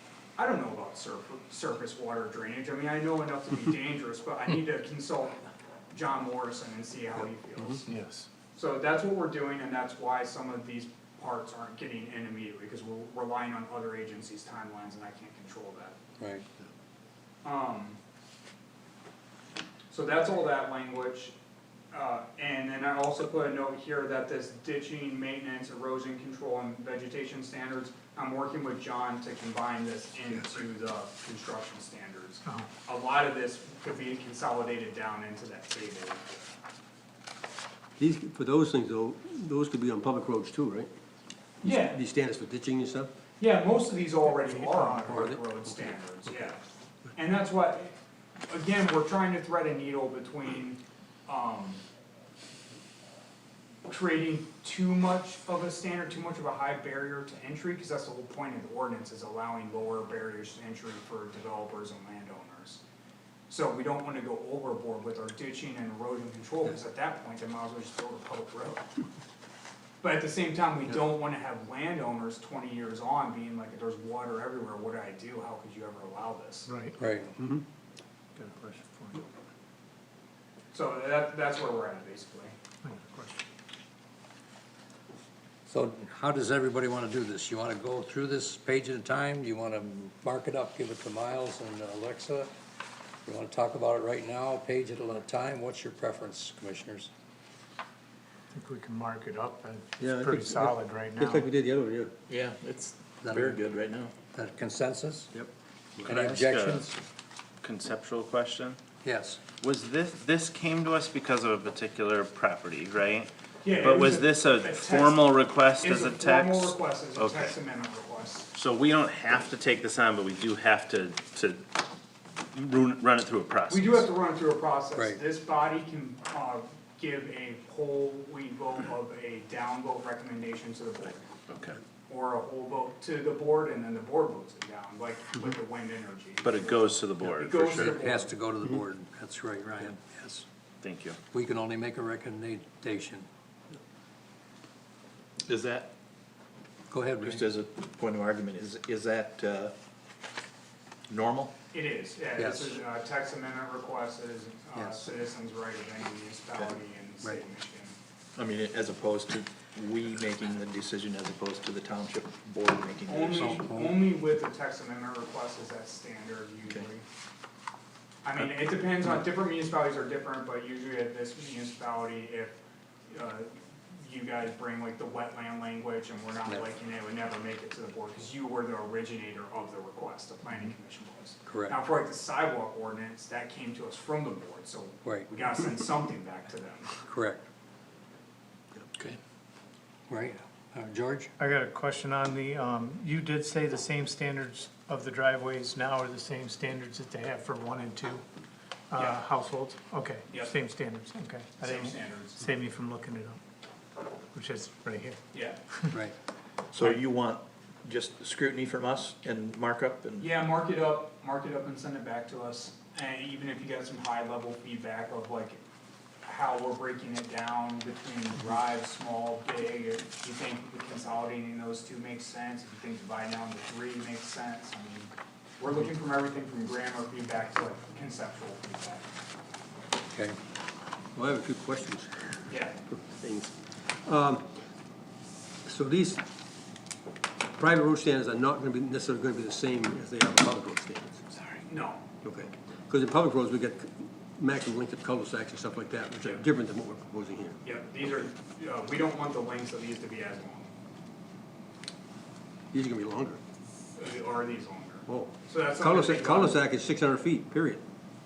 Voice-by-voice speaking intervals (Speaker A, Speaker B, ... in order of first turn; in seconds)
Speaker A: 0.4-7.9, 8.5-16.0, 17.4-18.0, 19.9-21.4, 21.9-36.3, 41.6-42.0, 43.4-46.6, 47.1-48.0, 48.5-51.8, 53.9-62.8, 63.5-68.8, 70.0-76.7, 80.7-82.5, 113.6-118.5, 123.7-131.3, 132.1-138.3, 151.7-158.0, 163.1-167.1, 168.2-187.0, 199.0-199.2, 201.6-202.5, 205.3-205.6, 210.2-215.6, 216.2-229.1, 232.5-232.8, 241.7-242.1, 247.6-250.7, 254.0-256.6
Speaker B: 7.9-8.3, 76.7-77.0, 78.4-79.2, 82.8-83.4, 98.5-101.5, 191.4-198.2, 198.9-203.4, 204.3-205.2, 205.7-206.0
Speaker C: 16.2-16.5, 77.0-77.3, 85.7-92.5, 93.2-97.1, 103.2-103.6, 104.3-105.3, 106.0-106.9, 109.0-109.4, 137.8-140.4, 141.3-143.3, 146.9-147.4, 152.4-152.7, 154.8-155.1, 163.4-164.0, 181.5-181.8, 187.0-187.4, 190.1-191.3, 230.0-230.4
Speaker D: 38.0-40.9, 41.6-43.1, 44.3-46.0, 77.4-77.7, 100.0-102.1, 105.3-106.1, 231.2-234.5, 235.7-236.2, 237.6-241.2, 242.2-247.6, 252.7-253.4, 255.1-257.8
Speaker E: 102.3-104.1, 145.5-145.9, 147.2-149.7, 151.1-151.5, 158.4-163.7, 206.7-210.3
Speaker F: 106.0-107.0, 107.6-108.8, 109.6-117.5, 118.5-121.6, 122.5-124.0, 131.5-131.8, 136.4-138.0, 140.8-141.2